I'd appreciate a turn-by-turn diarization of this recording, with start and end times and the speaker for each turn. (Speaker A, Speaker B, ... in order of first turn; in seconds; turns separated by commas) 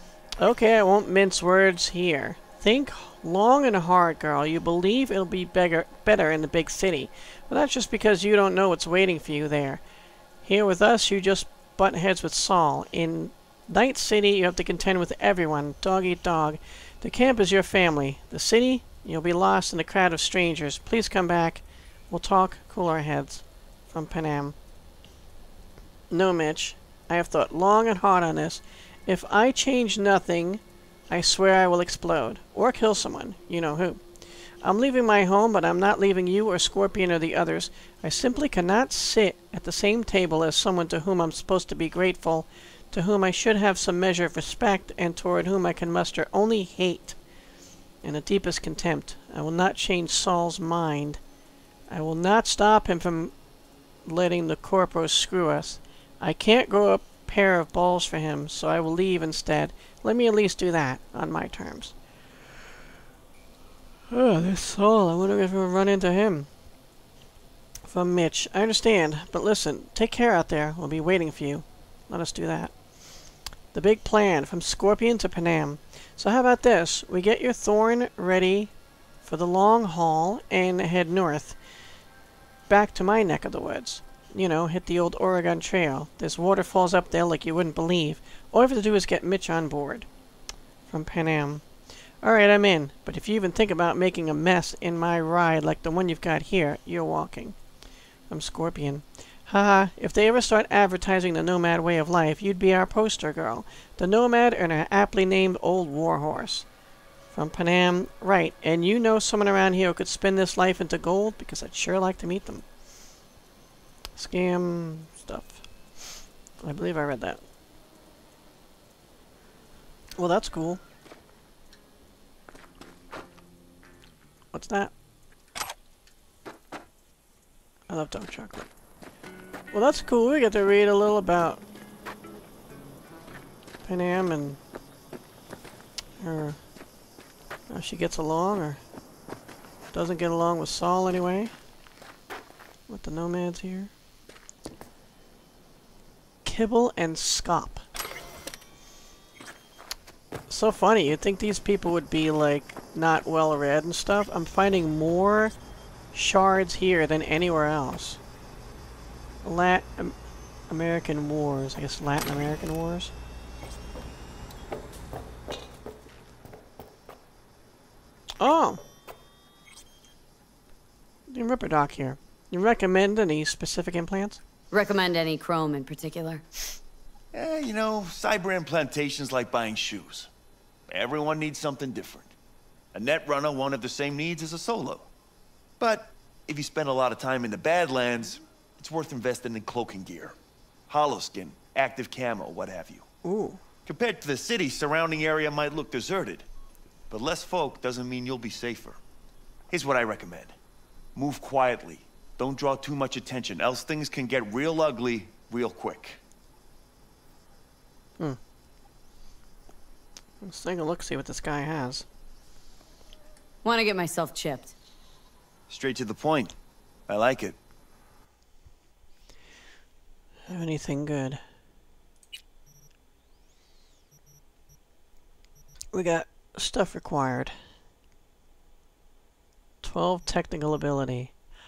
Speaker A: 0.4-9.8, Speaker A: 10.4-24.5, Speaker A: 26.1-34.0, Speaker A: 34.6-47.2, Speaker A: 48.0-51.2, Speaker A: 51.9-53.3, Speaker A: 54.0-61.9, Speaker A: 64.1-66.5, Speaker A: 67.8-72.8, Speaker A: 73.7-78.7, Speaker A: 79.2-81.6, Speaker A: 82.7-90.1, Speaker A: 90.9-91.7, Speaker A: 92.2-97.6, Speaker A: 98.3-106.7, Speaker A: 107.3-112.7, Speaker A: 114.1-117.4, Speaker A: 120.2-120.8, Speaker A: 124.5-124.9, Speaker A: 127.9-128.7, Speaker A: 129.7-131.6, Speaker A: 133.8-134.6, Speaker A: 136.2-136.6, Speaker A: 137.7-138.8, Speaker A: 139.9-141.5, Speaker A: 142.9-143.9, Speaker A: 146.4-147.8, Speaker A: 150.5-155.5, Speaker A: 156.1-158.2, Speaker A: 159.4-160.2, Speaker A: 160.7-163.1, Speaker A: 168.4-168.8, Speaker A: 171.3-174.4, Speaker B: 174.7-176.4, Speaker C: 177.3-180.3, Speaker C: 180.9-182.3, Speaker C: 182.9-185.1, Speaker C: 185.8-190.3, Speaker C: 190.9-193.1, Speaker A: 193.2-193.6, Speaker C: 193.8-196.4, Speaker C: 197.1-199.0, Speaker C: 199.7-200.6, Speaker C: 201.1-206.2, Speaker A: 210.4-212.1, Speaker B: 213.6-214.7, Speaker C: 215.7-216.5, Speaker C: 217.1-217.6, Speaker A: 220.5-221.4, Speaker A: 225.9-227.6, Speaker A: 229.8-231.3